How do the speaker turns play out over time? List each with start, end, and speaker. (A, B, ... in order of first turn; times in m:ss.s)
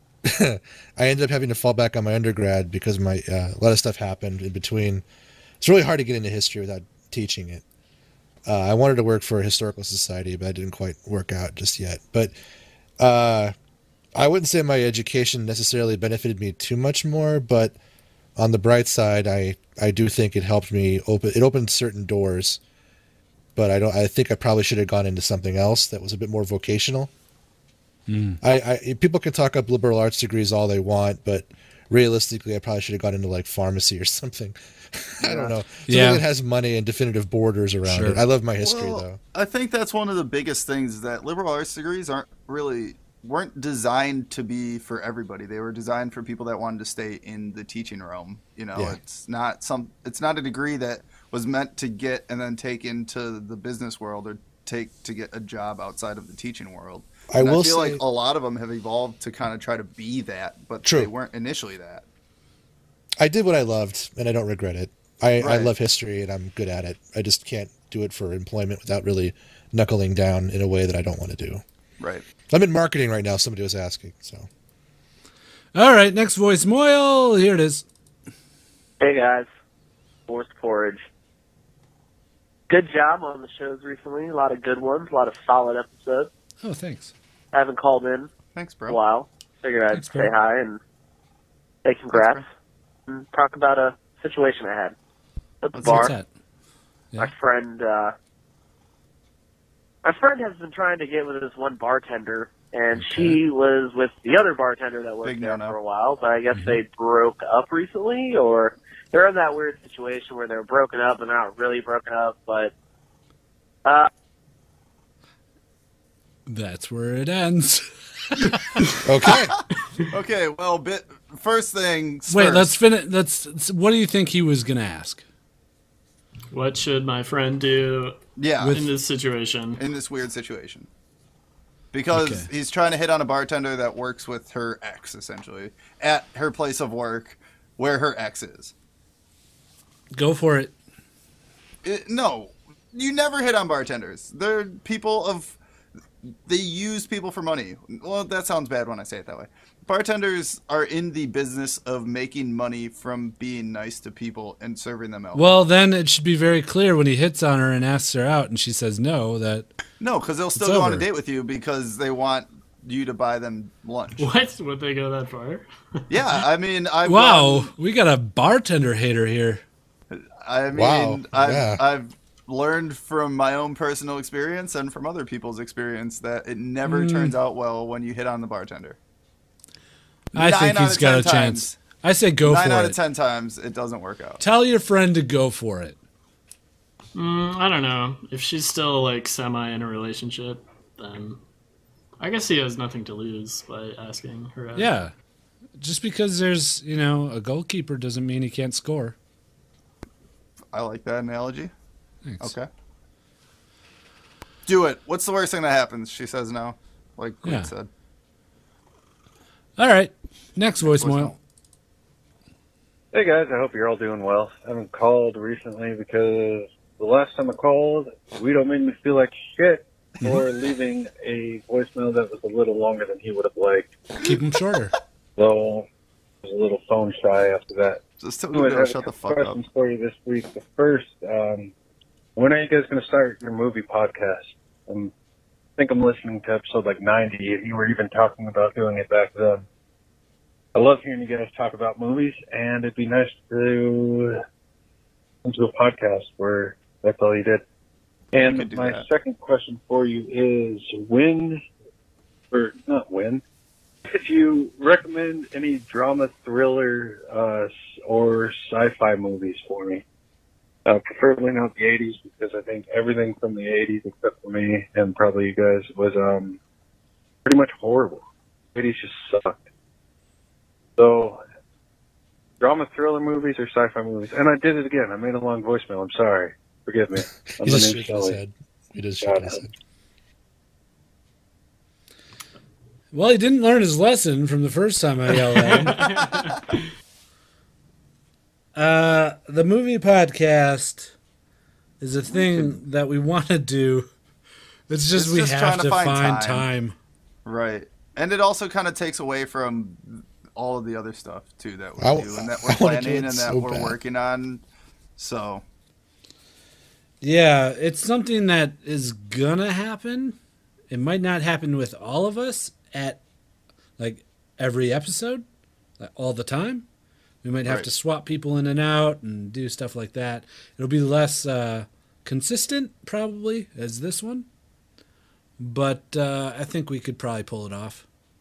0:00.2-0:05.0 A
0:05.6-0:07.6 A
0:08.5-0:12.3 A
0:13.0-0:13.5 A
0:14.2-0:17.8 A
0:18.4-0:22.6 A
0:23.6-0:27.1 A
0:28.1-0:28.4 B
0:28.4-0:39.2 A
0:35.2-0:35.6 C
0:35.9-0:36.2 B
0:37.8-0:38.2 B
0:38.6-1:02.0 C
0:57.3-0:58.0 A
1:00.8-1:01.1 A
1:03.2-1:11.6 A
1:05.4-1:05.7 C
1:12.0-1:12.2 C
1:12.5-1:14.5 A
1:15.8-1:17.8 B
1:19.0-1:19.5 D
1:20.3-1:21.0 D
1:22.7-1:26.3 D
1:26.6-1:27.1 B
1:27.5-1:28.3 D
1:28.6-1:29.0 C
1:28.9-1:30.8 D
1:29.9-1:30.3 B
1:31.8-1:32.4 D
1:32.1-1:32.4 C
1:33.1-1:35.0 D
1:35.6-1:36.1 D
1:35.8-1:36.1 C
1:35.8-1:36.3 B
1:37.2-1:38.2 D
1:40.0-1:52.7 D
1:43.0-1:43.4 B
1:45.2-1:45.8 C
1:46.5-1:46.8 B
1:53.8-1:54.1 D
1:56.5-1:58.8 B
1:59.0-1:59.6 A
2:00.1-2:02.7 C
2:02.3-2:05.2 B
2:06.5-2:09.8 E
2:08.4-2:08.8 C
2:08.6-2:08.9 B
2:09.8-2:10.9 C
2:11.9-2:18.7 C
2:12.1-2:12.5 B
2:20.1-2:20.7 B
2:21.8-2:25.6 C
2:26.4-2:35.6 C
2:35.3-2:39.7 B
2:40.0-2:44.3 C
2:40.6-2:41.1 B
2:44.2-2:45.7 E
2:46.1-2:47.7 C
2:47.0-2:49.6 B
2:50.1-2:59.0 C
2:50.7-2:51.8 A
2:56.8-2:57.4 B
3:00.3-3:03.0 B
3:00.4-3:01.8 C
3:02.4-3:04.4 C
3:04.4-3:06.0 B
3:07.2-3:11.4 E
3:12.2-3:14.9 E
3:14.8-3:15.1 B
3:15.8-3:19.2 B
3:20.7-3:21.7 C
3:22.2-3:22.5 B
3:22.4-3:22.7 C
3:24.7-3:27.9 C
3:27.4-3:27.7 B
3:29.8-3:31.3 B
3:30.8-3:31.4 C
3:33.1-3:43.9 F
3:44.2-3:44.9 B
3:45.4-3:45.9 F
3:46.4-3:48.0 F
3:48.2-3:49.6 C
3:48.5-3:51.7 F
3:52.4-3:55.1 F
3:55.8-3:59.6 F
4:00.8-4:04.4 F
4:05.4-4:07.6 F
4:08.3-4:11.6 F
4:08.4-4:09.1 C
4:12.5-4:13.4 F
4:14.1-4:20.0 F
4:20.9-4:26.6 F
4:27.4-4:28.2 F
4:28.8-4:29.6 F
4:31.0-4:31.4 F
4:32.6-4:38.4 F
4:37.5-4:39.7 A
4:39.2-4:39.6 F
4:43.1-4:46.0 B
4:45.7-4:46.8 E
4:48.8-4:51.1 B
4:52.0-4:54.1 B
4:54.9-4:57.0 B
4:55.1-4:56.7 C
4:57.4-5:04.6 C
5:02.0-5:04.0 A
5:05.2-5:05.6 C
5:07.2-5:10.4 B
5:10.9-5:13.2 B
5:14.0-5:15.4 B
5:16.0-5:16.8 B
5:17.4-5:24.5 B
5:25.6-5:28.0 B